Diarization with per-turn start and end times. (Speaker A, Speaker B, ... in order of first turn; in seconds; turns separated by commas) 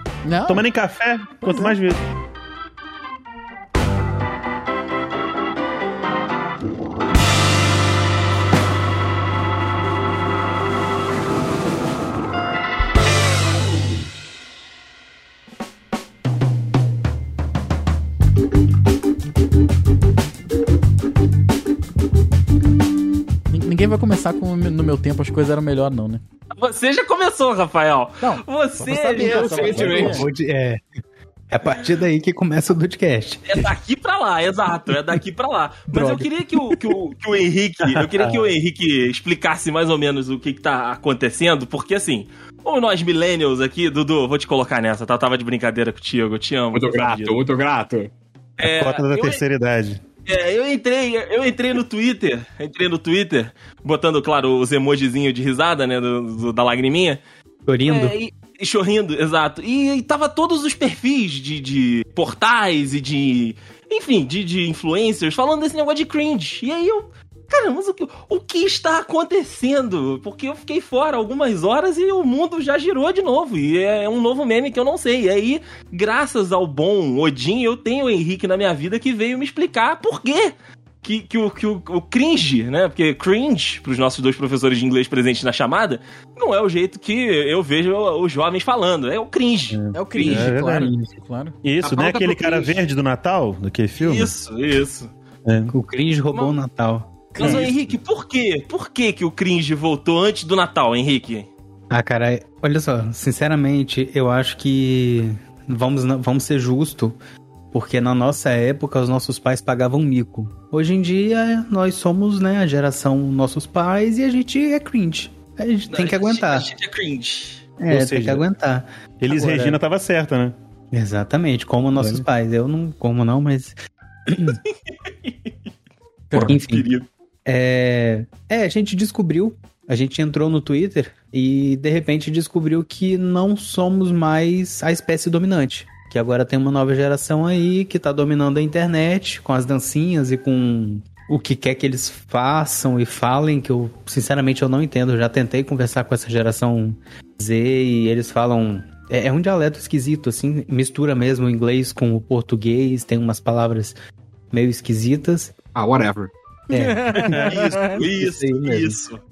Speaker A: 0.3-0.7, Speaker B: 0.5-2.0, Speaker A: 1.4-1.8, Speaker A: 23.5-26.2, Speaker C: 26.6-30.1, Speaker A: 28.2-30.3, Speaker D: 29.1-30.3, Speaker E: 29.6-30.8, Speaker E: 31.5-33.6, Speaker C: 33.5-47.4, Speaker A: 35.9-36.3, Speaker D: 46.7-48.1, Speaker C: 48.6-49.4, Speaker B: 48.6-50.0, Speaker C: 50.3-57.2, Speaker E: 57.7-58.2, Speaker C: 57.9-90.5, Speaker B: 89.7-91.1, Speaker A: 89.9-91.6, Speaker B: 91.6-94.3, Speaker C: 91.8-92.8, Speaker C: 94.0-95.1, Speaker B: 95.5-95.7, Speaker E: 95.7-97.6, Speaker C: 97.4-101.5, Speaker B: 97.4-97.8, Speaker E: 101.9-107.2, Speaker E: 107.7-116.7, Speaker C: 115.9-117.7, Speaker E: 117.8-119.8, Speaker B: 117.9-118.4, Speaker B: 119.2-120.6, Speaker E: 120.9-123.8, Speaker E: 124.3-124.6, Speaker A: 126.3-126.6, Speaker C: 126.4-127.1, Speaker E: 126.5-126.9, Speaker E: 127.5-154.0, Speaker E: 154.5-155.5, Speaker D: 155.8-156.3, Speaker E: 156.7-157.4, Speaker A: 156.7-157.9, Speaker B: 157.2-157.8, Speaker C: 157.5-159.2, Speaker E: 158.0-159.0